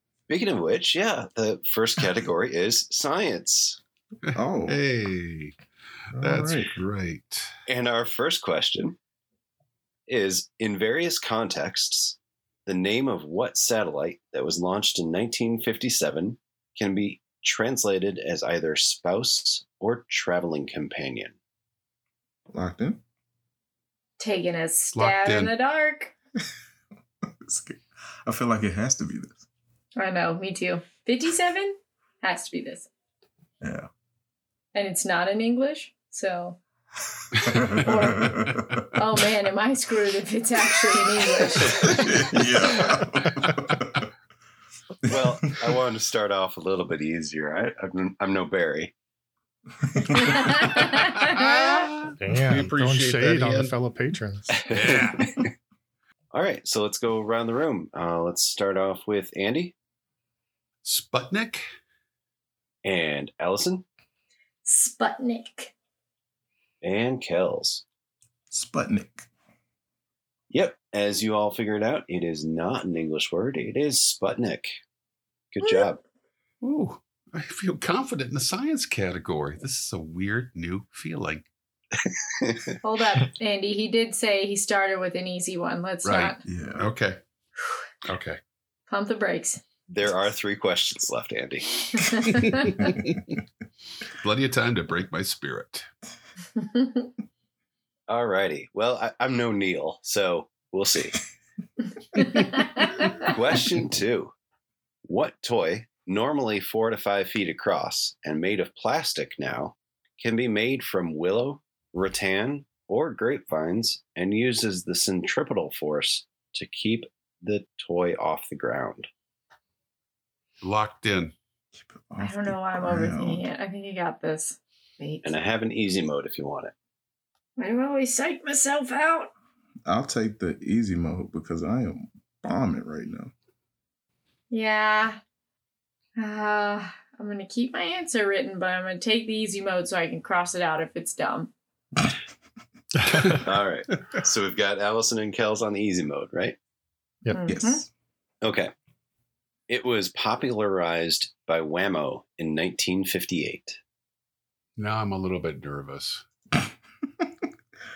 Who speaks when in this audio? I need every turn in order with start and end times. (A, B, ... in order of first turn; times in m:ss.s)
0:00.3-0:03.8 A
0:04.3-0:05.6 B
0:04.3-0:04.8 C
0:06.1-0:06.8 C
0:06.2-0:07.5 B
0:07.7-0:09.0 A
0:10.1-0:21.4 A
0:22.5-0:23.0 C
0:24.2-0:26.1 D
0:25.0-0:25.5 B
0:27.3-0:29.5 C
0:30.0-0:32.9 D
0:33.6-0:33.9 C
0:34.8-0:36.6 D
0:37.5-0:38.8 C
0:37.8-0:42.1 D
0:41.6-0:44.1 C
0:45.0-0:48.9 A
0:45.1-0:45.4 C
0:50.0-0:50.5 C
0:50.2-0:51.9 D
0:50.8-0:53.7 B
0:52.2-0:54.5 E
0:54.7-0:55.4 B
0:54.8-0:55.5 A
0:56.3-0:59.7 A
1:00.8-1:01.7 B
1:02.8-1:03.8 A
1:04.7-1:05.7 D
1:06.8-1:07.8 A
1:08.5-1:09.3 C
1:10.5-1:14.8 A
1:15.5-1:16.0 A
1:15.6-1:15.9 D
1:16.6-1:21.5 B
1:22.1-1:22.7 A
1:22.8-1:26.4 D
1:26.0-1:27.2 B
1:26.4-1:26.9 C
1:28.0-1:28.4 B
1:28.9-1:29.6 D
1:29.9-1:31.7 A
1:31.9-1:32.9 D
1:32.5-1:33.2 B
1:34.1-1:35.9 B
1:36.6-1:37.1 D
1:38.1-1:41.2 A
1:42.2-1:43.3 D
1:43.2-1:44.3 A
1:45.0-1:59.1 A
2:00.6-2:01.3 B
2:01.7-2:03.4 C
2:02.2-2:05.3 D
2:05.2-2:06.7 A
2:07.6-2:09.3 D
2:09.9-2:13.3 C
2:14.5-2:15.2 D
2:16.2-2:21.5 D
2:23.3-2:26.6 A
2:27.3-2:27.8 D
2:27.5-2:27.9 C
2:28.4-2:28.7 A
2:29.7-2:33.8 A
2:34.8-2:36.2 B